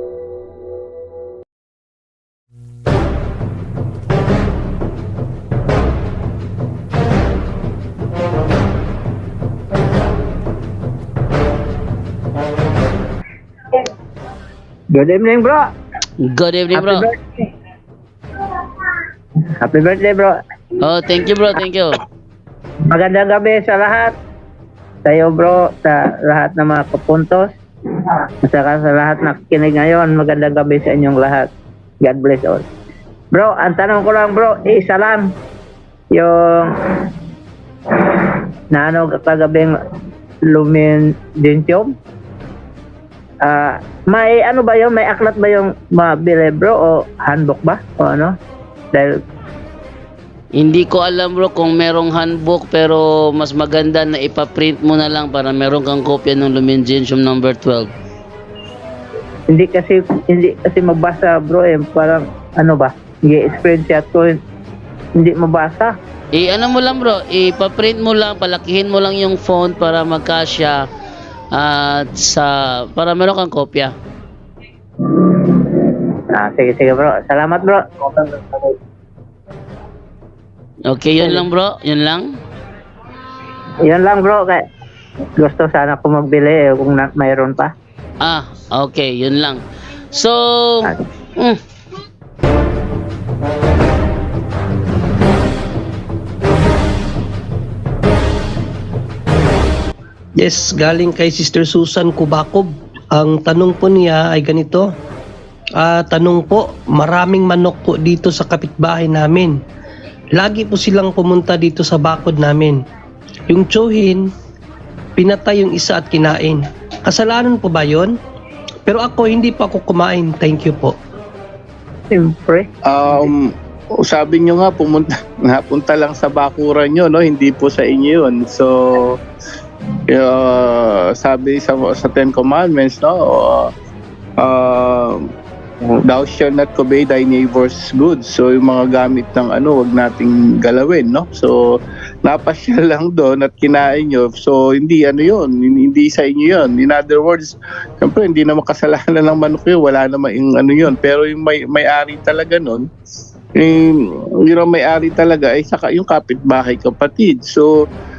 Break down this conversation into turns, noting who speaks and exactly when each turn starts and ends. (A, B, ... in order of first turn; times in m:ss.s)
0:14.9-0:15.6 A
0:16.2-0:17.1 B
0:16.8-0:17.4 A
0:19.6-0:20.3 A
0:20.8-0:22.0 B
0:22.9-0:24.1 A
0:25.1-0:27.5 A
0:28.5-0:31.5 A
0:32.0-0:32.6 A
0:33.3-0:35.3 A
0:36.1-0:37.1 A
0:37.9-0:39.7 A
0:40.5-0:41.9 A
0:43.4-0:48.3 A
0:50.6-0:57.9 B
0:59.5-1:04.4 A
1:05.2-1:06.0 A
1:06.3-1:10.9 B
1:11.6-1:13.9 B
1:15.0-1:18.7 A
1:20.9-1:22.3 B
1:23.9-1:24.6 A
1:25.4-1:27.7 A
1:28.2-1:31.6 B
1:40.4-1:44.9 C
1:45.8-1:49.6 C
1:50.4-1:52.8 C
1:53.5-1:54.3 C
1:55.2-1:58.2 C
1:58.9-2:01.0 C
2:02.1-2:02.7 A
2:02.9-2:09.2 D
2:10.1-2:13.7 D
2:14.4-2:15.2 D
2:16.0-2:32.9 D
2:33.6-2:37.7 D